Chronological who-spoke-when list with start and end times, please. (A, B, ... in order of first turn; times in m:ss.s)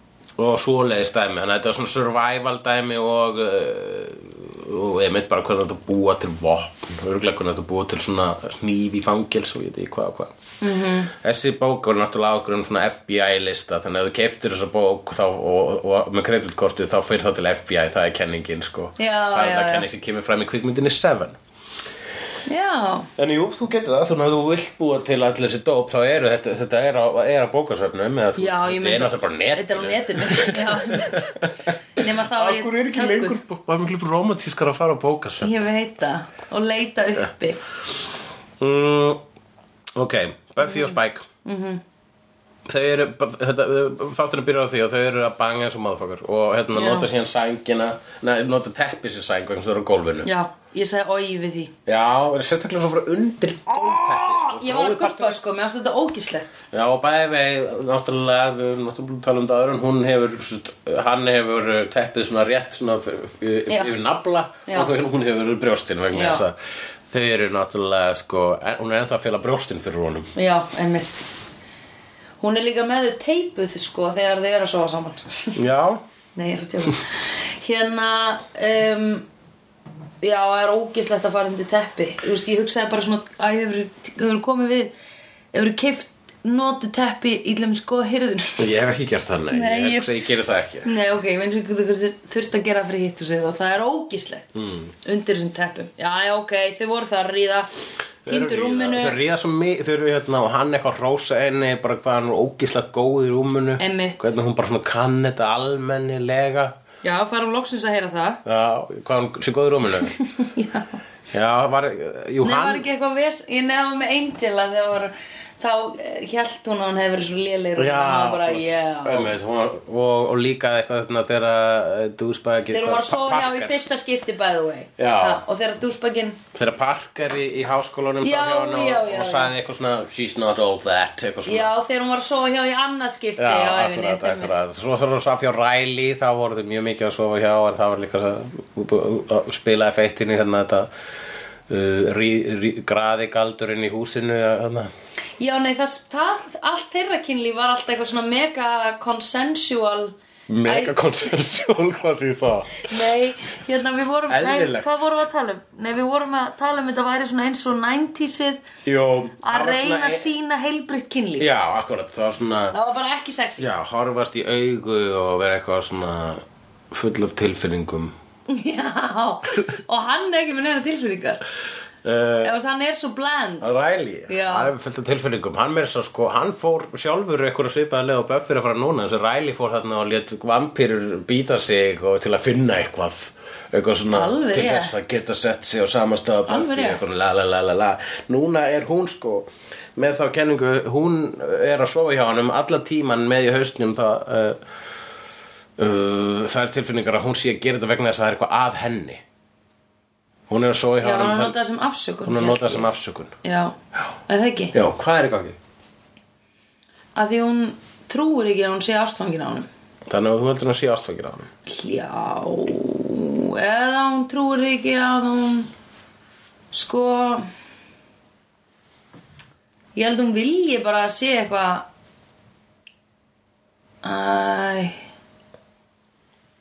0:00.4-0:10.3 A
0:10.6-0:11.1 B
0:11.2-0:21.4 A
0:19.0-0:19.9 B
0:22.5-0:23.1 B
0:23.2-0:35.6 A
0:28.4-0:31.4 B
0:32.0-0:33.4 B
0:35.4-0:37.7 B
0:38.6-0:39.2 A
0:40.0-0:41.2 A
0:40.6-0:41.8 B
0:42.7-0:50.3 A
0:46.7-0:47.1 B
0:50.2-0:51.7 B
0:51.9-0:55.4 A
0:53.7-0:56.7 B
0:56.7-1:10.3 A
1:03.7-1:03.9 B
1:04.7-1:04.9 B
1:06.1-1:06.4 B
1:10.4-1:11.3 B
1:12.4-1:15.6 B
1:15.6-1:16.0 A
1:16.4-1:19.3 B
1:20.2-1:24.9 B
1:25.5-1:28.7 B
1:28.6-1:30.9 A
1:29.5-1:30.1 B
1:30.8-1:34.5 B
1:34.6-1:34.9 A
1:35.0-1:37.7 B
1:38.2-1:46.8 A
1:38.3-1:39.2 B
1:43.8-1:44.3 B
1:47.0-1:48.4 B
1:48.4-1:50.2 A
1:50.1-1:51.0 B
1:51.3-1:52.9 A
1:52.4-1:59.3 B
1:57.8-2:03.8 A
2:02.7-2:06.4 B
2:05.0-2:05.4 A
2:06.5-2:11.7 A
2:08.2-2:09.5 B
2:11.4-2:14.5 B
2:13.4-2:20.9 A
2:21.7-2:24.9 A
2:25.4-2:31.0 B
2:30.5-2:33.0 A
2:32.8-2:38.6 B
2:34.3-2:35.1 A
2:38.8-2:40.3 A
2:39.4-2:41.5 B
2:41.4-2:42.8 A
2:42.7-2:43.7 B
2:43.6-2:48.1 A
2:48.5-2:51.4 B
2:52.0-2:52.5 A
2:52.4-2:54.7 B
2:53.6-3:14.6 A
3:04.1-3:04.9 B
3:06.5-3:07.0 B
3:15.8-3:19.2 A
3:20.5-3:21.6 A
3:21.0-3:22.9 B
3:22.2-3:23.3 A
3:23.4-3:23.8 B
3:24.3-3:24.8 B
3:24.7-3:25.6 A
3:27.2-3:29.7 B
3:30.1-3:31.5 A
3:31.7-3:35.7 B
3:36.7-3:37.5 B
3:40.0-3:41.9 B
3:44.0-3:45.0 B